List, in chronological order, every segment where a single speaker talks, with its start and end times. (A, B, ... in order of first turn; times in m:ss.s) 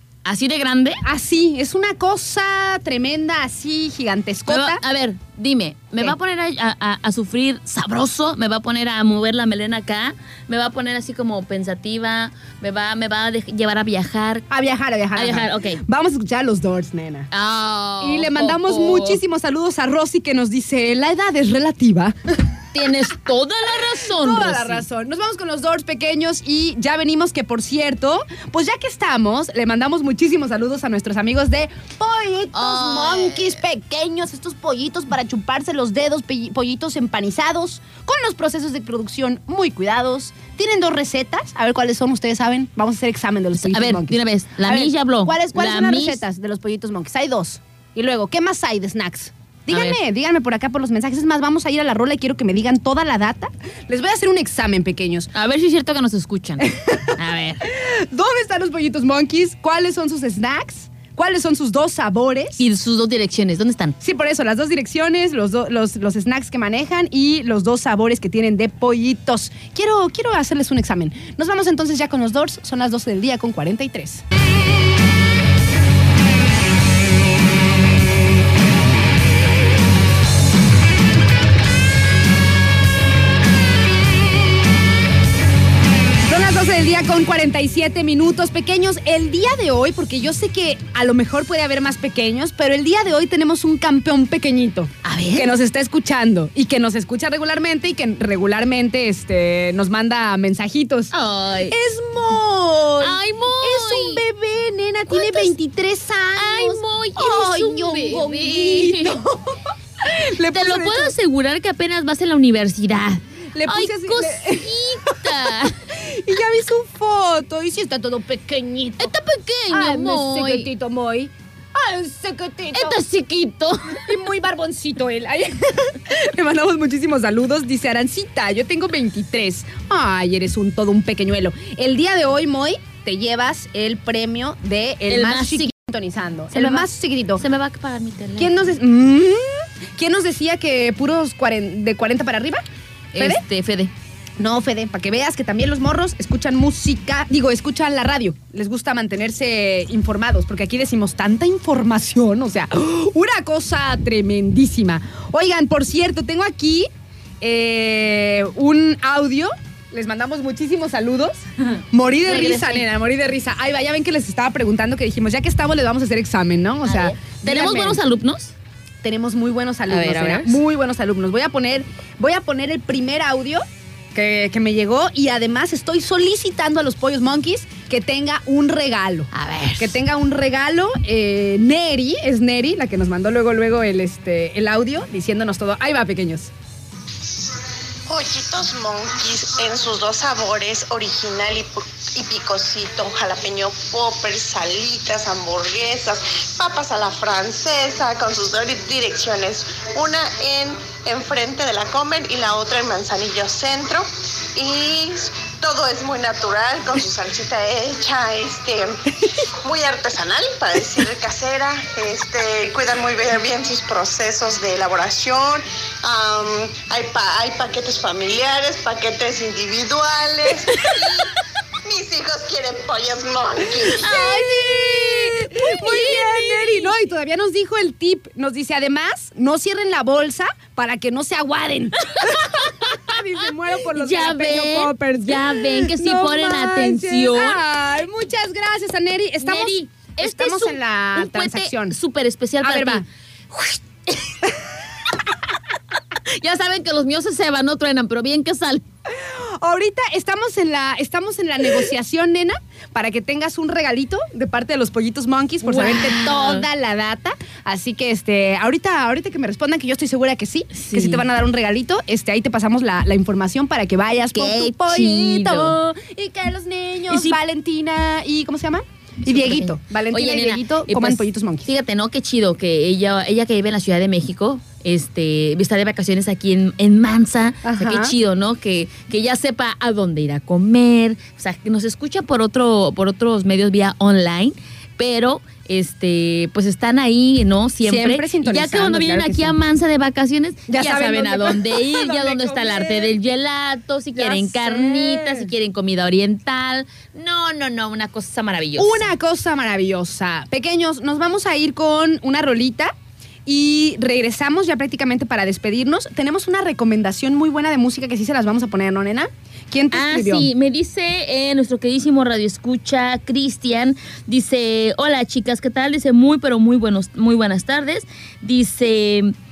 0:00.2-0:01.0 A
0:01.0-0:04.8 B
0:04.5-0:14.4 A
0:14.5-0:17.3 B
0:15.1-0:15.8 A
0:17.3-0:19.2 A
0:18.0-0:22.4 B
0:22.7-0:24.8 A
0:24.0-0:55.3 B
0:32.5-0:33.5 A
0:43.6-0:46.2 A
0:49.7-0:50.0 A
0:55.3-0:57.6 A
0:56.6-1:02.6 B
1:02.6-1:04.0 A
1:04.0-1:14.2 B
1:26.3-1:41.1 B
1:35.0-1:35.5 A
1:41.1-1:41.8 A
1:41.7-1:51.1 B
1:43.0-1:44.2 A
1:45.1-1:45.6 A
1:46.4-1:49.2 A
1:50.5-1:55.8 A
1:53.5-1:59.1 B
1:59.0-2:00.7 A
1:59.7-2:03.0 B
2:02.7-2:04.1 A
2:03.9-2:17.4 B
2:15.1-2:15.7 A
2:16.5-2:18.6 A
2:18.4-2:22.6 B
2:23.1-2:23.9 A
2:23.2-2:23.4 B
2:24.4-2:36.9 B
2:37.4-2:48.0 B
2:42.2-2:42.9 A
2:46.8-2:48.5 A
2:49.0-2:53.6 B
2:49.9-2:50.6 A
2:54.1-3:06.5 B
2:59.3-3:00.0 A
3:08.1-3:41.3 C
3:41.8-3:44.0 C
3:43.9-3:46.9 A
3:44.0-4:02.0 B
3:52.0-3:53.0 A
3:53.8-3:57.6 A
3:59.4-4:04.5 A
4:02.6-4:03.0 B
4:06.2-4:08.8 A
4:09.1-4:31.7 B
4:15.6-4:16.7 A
4:20.7-4:21.2 A
4:24.3-4:25.8 A
4:27.1-4:27.4 A
4:29.2-4:59.1 A
4:37.6-4:38.1 B
4:47.8-4:49.6 B
4:50.7-4:53.1 B
4:54.1-4:55.5 B
4:58.8-5:02.9 B
5:03.4-5:10.5 B
5:09.9-5:19.3 A